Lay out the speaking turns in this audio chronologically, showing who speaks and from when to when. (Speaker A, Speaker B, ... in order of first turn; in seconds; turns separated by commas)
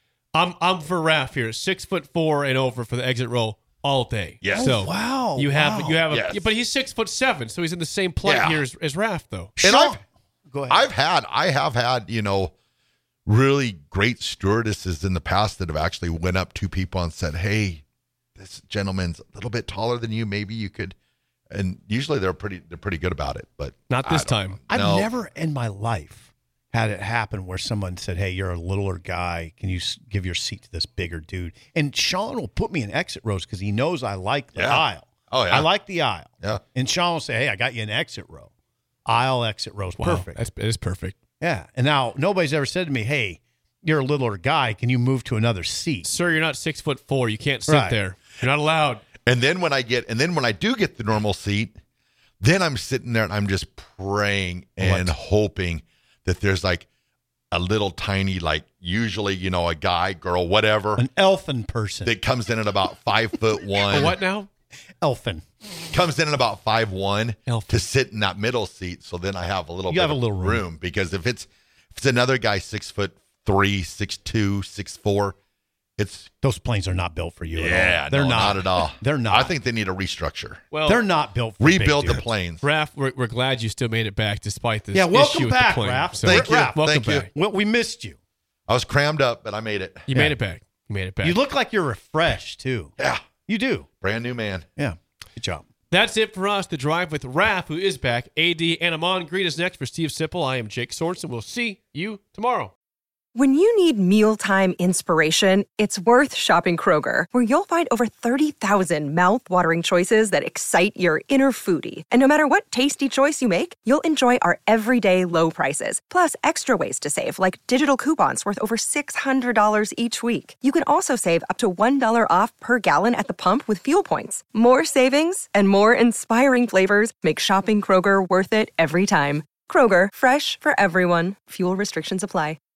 Speaker A: 0.3-9.5, Speaker B: 4.4-4.8, Speaker C: 4.5-6.0, Speaker B: 6.1-6.5, Speaker B: 8.2-8.6, Speaker C: 9.6-10.8, Speaker B: 9.6-10.0, Speaker B: 10.7-12.5, Speaker B: 13.3-17.8, Speaker B: 18.4-20.9, Speaker B: 21.5-25.1, Speaker A: 23.9-24.6, Speaker C: 24.7-38.5, Speaker B: 34.5-35.7, Speaker C: 39.1-40.4, Speaker A: 40.0-41.2, Speaker C: 41.4-46.1, Speaker A: 46.0-49.0, Speaker C: 47.7-48.0, Speaker B: 49.2-51.8, Speaker B: 52.4-56.9, Speaker C: 54.8-55.1, Speaker B: 57.5-61.0, Speaker C: 61.0-62.1, Speaker B: 62.0-64.2, Speaker A: 63.9-64.5, Speaker C: 65.0-65.4, Speaker B: 65.9-75.4, Speaker A: 67.5-67.8, Speaker C: 69.9-70.7, Speaker B: 76.0-76.3, Speaker C: 76.4-79.5, Speaker B: 77.5-80.7, Speaker A: 80.7-81.0, Speaker C: 80.9-82.2, Speaker B: 81.6-82.7, Speaker A: 82.6-87.3, Speaker C: 84.9-88.2, Speaker B: 86.2-87.3, Speaker B: 88.7-90.1, Speaker A: 90.1-91.4, Speaker C: 90.1-90.4, Speaker C: 91.2-93.9, Speaker B: 93.0-93.2, Speaker B: 94.0-94.7, Speaker C: 94.8-95.7, Speaker A: 95.9-102.7, Speaker D: 103.3-132.6